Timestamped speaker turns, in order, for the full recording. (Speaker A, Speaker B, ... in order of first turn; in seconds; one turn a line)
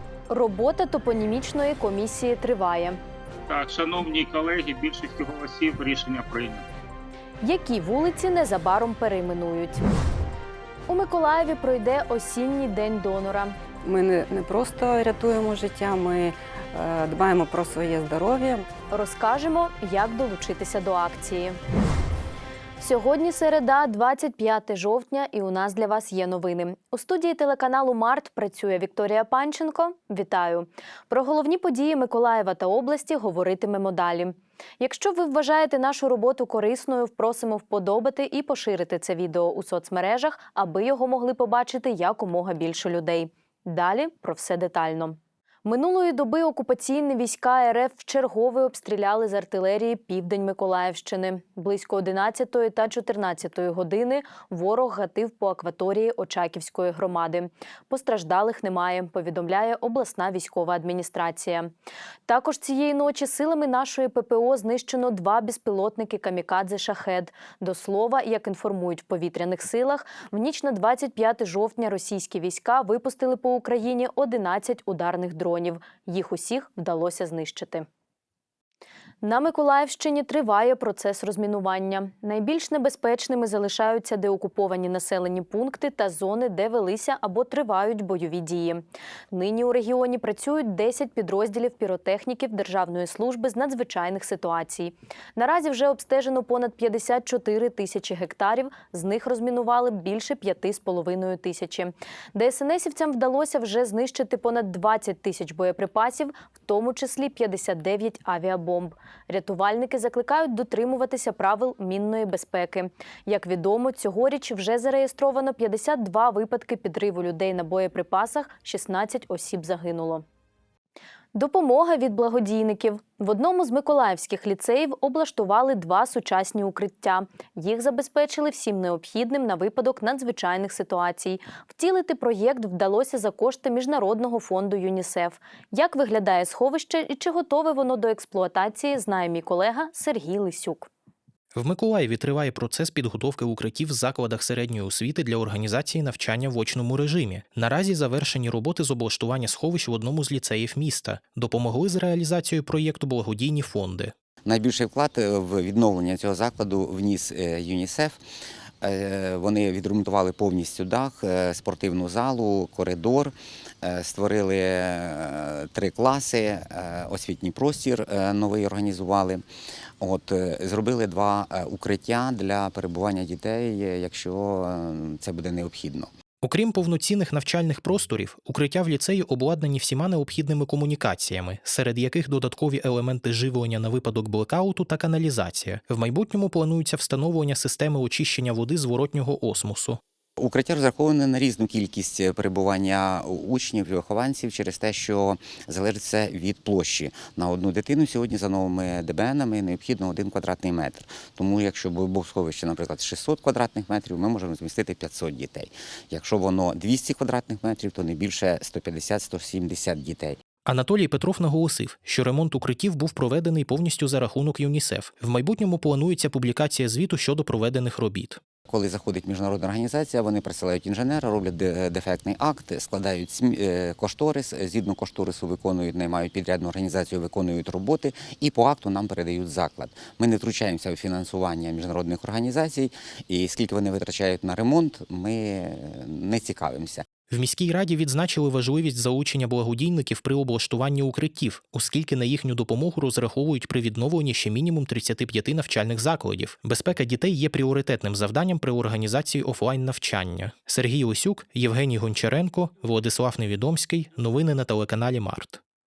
Speaker A: 0.3-3.0
Speaker B: 3.5-6.6
Speaker A: 7.4-9.8
Speaker A: 10.9-13.5
Speaker C: 13.8-18.6
Speaker A: 18.9-21.6
Speaker A: 22.8-61.7
Speaker A: 62.3-77.8
Speaker A: 79.2-120.2
Speaker A: 121.3-140.9
Speaker D: 141.5-154.1
Speaker E: 154.4-158.2
Speaker E: 158.8-169.4
Speaker E: 170.0-176.1
Speaker D: 176.4-190.0
Speaker E: 190.4-210.4
Speaker D: 210.7-218.4
Speaker E: 218.7-237.0
Speaker D: 237.3-255.6